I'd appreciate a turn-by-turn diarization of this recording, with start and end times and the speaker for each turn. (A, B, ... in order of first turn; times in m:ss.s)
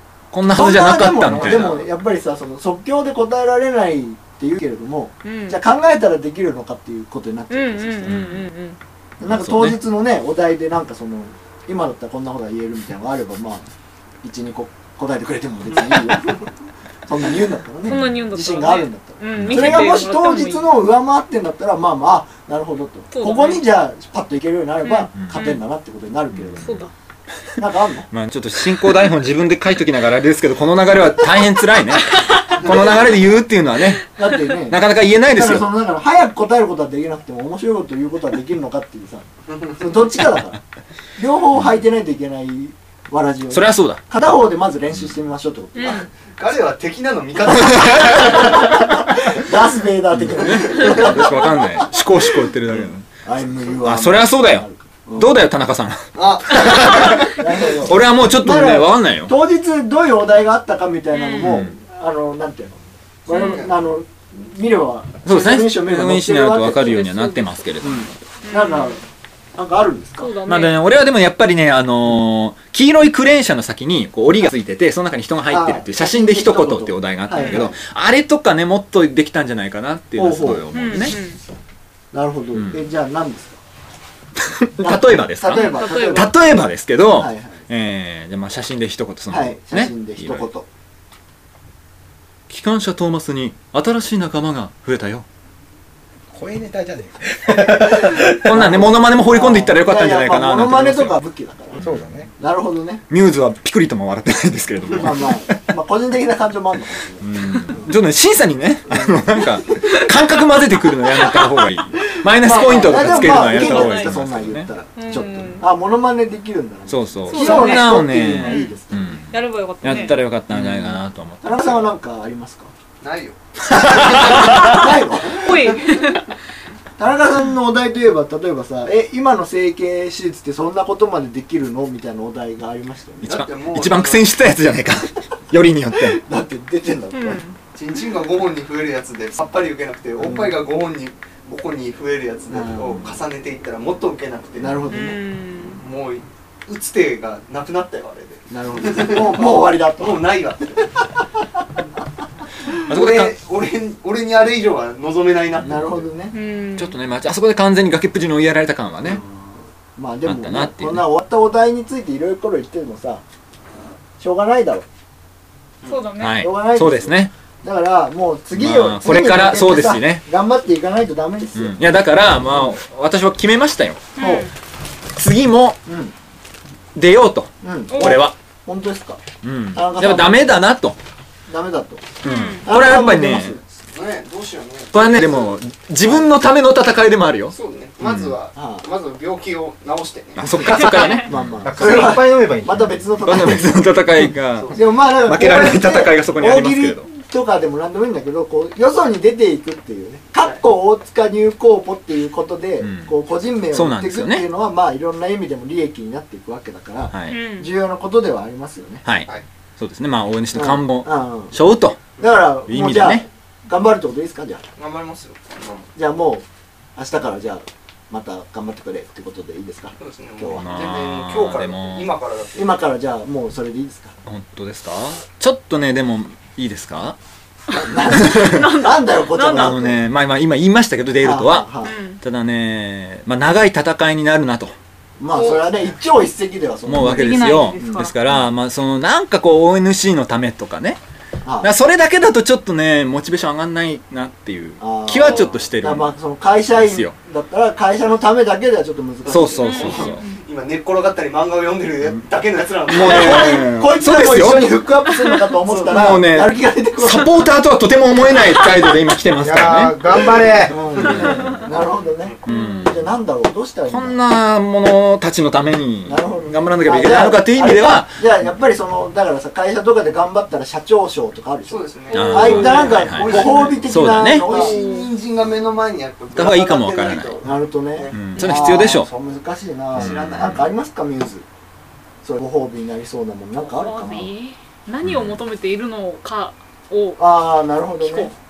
0:00.3-0:01.9 A
0:00.5-0:08.2 B
0:05.2-0:05.6 C
0:07.5-0:08.8 C
0:08.0-0:08.5 A
0:09.2-0:13.7 B
0:09.2-0:09.8 A
0:14.2-0:16.5 B
0:15.7-0:16.4 D
0:17.0-0:26.9 B
0:17.8-0:20.8 C
0:17.9-0:18.2 A
0:19.3-0:20.0 A
0:23.1-0:23.6 C
0:24.8-0:25.6 C
0:25.2-0:25.4 A
0:26.3-0:26.8 A
0:26.6-0:26.9 C
0:27.6-0:28.1 B
0:28.1-0:34.0 A
0:32.6-0:32.9 D
0:32.7-0:33.0 B
0:34.2-0:40.6 B
0:34.7-0:35.7 A
0:39.5-0:39.8 D
0:41.2-0:46.1 B
0:43.5-0:44.0 A
0:45.8-0:46.1 C
0:45.9-0:48.8 D
0:48.2-0:52.3 B
0:50.2-0:59.3 A
0:50.6-0:50.9 D
0:53.2-0:55.4 B
0:56.1-0:57.3 D
0:57.2-1:09.0 B
1:01.1-1:01.6 C
1:01.4-1:01.7 A
1:03.3-1:03.6 C
1:03.3-1:03.7 D
1:05.2-1:08.1 A
1:07.1-1:07.5 C
1:08.4-1:09.0 C
1:09.6-1:10.3 B
1:10.2-1:10.8 C
1:10.4-1:21.2 A
1:15.5-1:17.7 B
1:17.3-1:17.6 C
1:20.2-1:20.7 B
1:20.7-1:21.4 C
1:22.1-1:23.6 B
1:22.5-1:22.8 A
1:24.4-1:30.5 A
1:24.8-1:26.3 B
1:25.6-1:26.3 C
1:27.1-1:27.6 B
1:29.3-1:30.6 B
1:32.5-1:35.2 A
1:36.3-1:38.5 E
1:38.1-1:41.2 A
1:38.5-1:41.8 B
1:41.8-1:42.3 E
1:41.8-1:42.1 A
1:42.4-1:43.0 B
1:43.1-1:45.6 A
1:44.9-1:47.9 B
1:47.2-1:54.7 A
1:48.9-1:50.0 B
1:52.1-1:59.2 B
1:52.9-1:54.1 C
1:55.0-1:55.6 C
1:56.9-2:01.8 A
1:57.2-1:58.7 C
1:59.3-2:00.2 C
1:59.9-2:02.7 B
2:03.0-2:04.8 D
2:03.7-2:04.8 A
2:04.1-2:05.7 B
2:05.2-2:06.2 C
2:05.4-2:06.2 D
2:07.0-2:13.4 B
2:13.2-2:16.2 A
2:13.2-2:14.3 D
2:16.0-2:17.4 B
2:17.1-2:17.6 C
2:17.7-2:24.8 D
2:20.2-2:20.6 B
2:22.5-2:23.2 B
2:24.6-2:25.2 B
2:24.9-2:25.8 C
2:25.8-2:30.9 D
2:28.5-2:30.3 B
2:32.8-2:36.0 D
2:32.9-2:33.3 A
2:35.6-2:35.8 A
2:35.6-2:36.3 B
2:36.3-2:37.0 C
2:36.8-2:39.2 A
2:39.0-2:43.2 B
2:40.2-2:41.0 A
2:44.2-2:44.8 B
2:45.8-2:46.4 C
2:46.2-2:47.3 A
2:46.4-2:52.7 B
2:48.5-2:50.2 A
2:51.6-2:54.1 A
2:54.2-2:54.5 C
2:54.2-2:54.5 B
2:55.1-2:55.8 A
2:55.8-2:56.1 B
2:56.9-2:58.3 A
2:57.6-2:59.2 B
2:57.9-2:58.2 C
2:59.4-3:01.0 A
2:59.7-3:00.6 B
3:01.5-3:02.0 B
3:02.2-3:03.6 A
3:02.2-3:02.6 C
3:02.6-3:03.6 B
3:03.9-3:05.6 D
3:04.9-3:08.3 A
3:07.5-3:10.5 D
3:08.5-3:08.8 B
3:10.4-3:11.7 A
3:10.7-3:11.3 C
3:11.2-3:14.0 B
3:11.6-3:13.0 E
3:11.8-3:12.1 D
3:13.2-3:17.1 A
3:14.5-3:14.8 D
3:14.7-3:29.0 B
3:22.8-3:23.1 A
3:23.7-3:24.4 A
3:27.1-3:27.4 A
3:27.3-3:27.7 C
3:29.0-3:32.0 A
3:30.5-3:31.5 B
3:32.2-3:34.6 B
3:32.6-3:33.2 A
3:34.8-3:35.9 D
3:35.9-3:36.4 B
3:37.0-3:40.6 B
3:40.0-3:42.8 D
3:40.5-3:42.1 A
3:42.6-3:44.1 B
3:44.2-3:47.2 A
3:47.7-3:50.0 B
3:48.1-3:48.7 A
3:48.3-3:49.8 C
3:49.3-3:54.7 A
3:51.2-3:51.9 B
3:51.8-3:52.2 C
3:55.2-3:58.1 B
3:55.3-3:55.6 C
3:56.9-4:01.0 A
3:57.0-3:58.4 C
4:01.4-4:01.7 B
4:01.6-4:06.1 A
4:04.8-4:10.0 B
4:06.7-4:07.1 A
4:09.3-4:10.2 A
4:09.6-4:10.4 C
4:09.6-4:13.6 D
4:12.8-4:14.8 A
4:12.9-4:17.3 B
4:15.7-4:20.0 A
4:19.4-4:20.8 E
4:20.7-4:24.2 B
4:21.0-4:22.4 D
4:22.4-4:22.9 C
4:22.4-4:23.1 A
4:23.9-4:28.3 A
4:26.0-4:34.8 B
4:31.7-4:38.2 D
4:32.1-4:33.1 C
4:32.1-4:34.5 A
4:34.6-4:35.1 C
4:36.3-4:37.4 A
4:37.4-4:41.4 B
4:38.1-4:39.1 A
4:39.9-4:40.7 D
4:39.9-4:40.6 A
4:42.2-4:44.3 B
4:43.6-4:47.4 C
4:45.0-4:45.4 A
4:47.2-4:48.3 B
4:48.0-4:48.3 C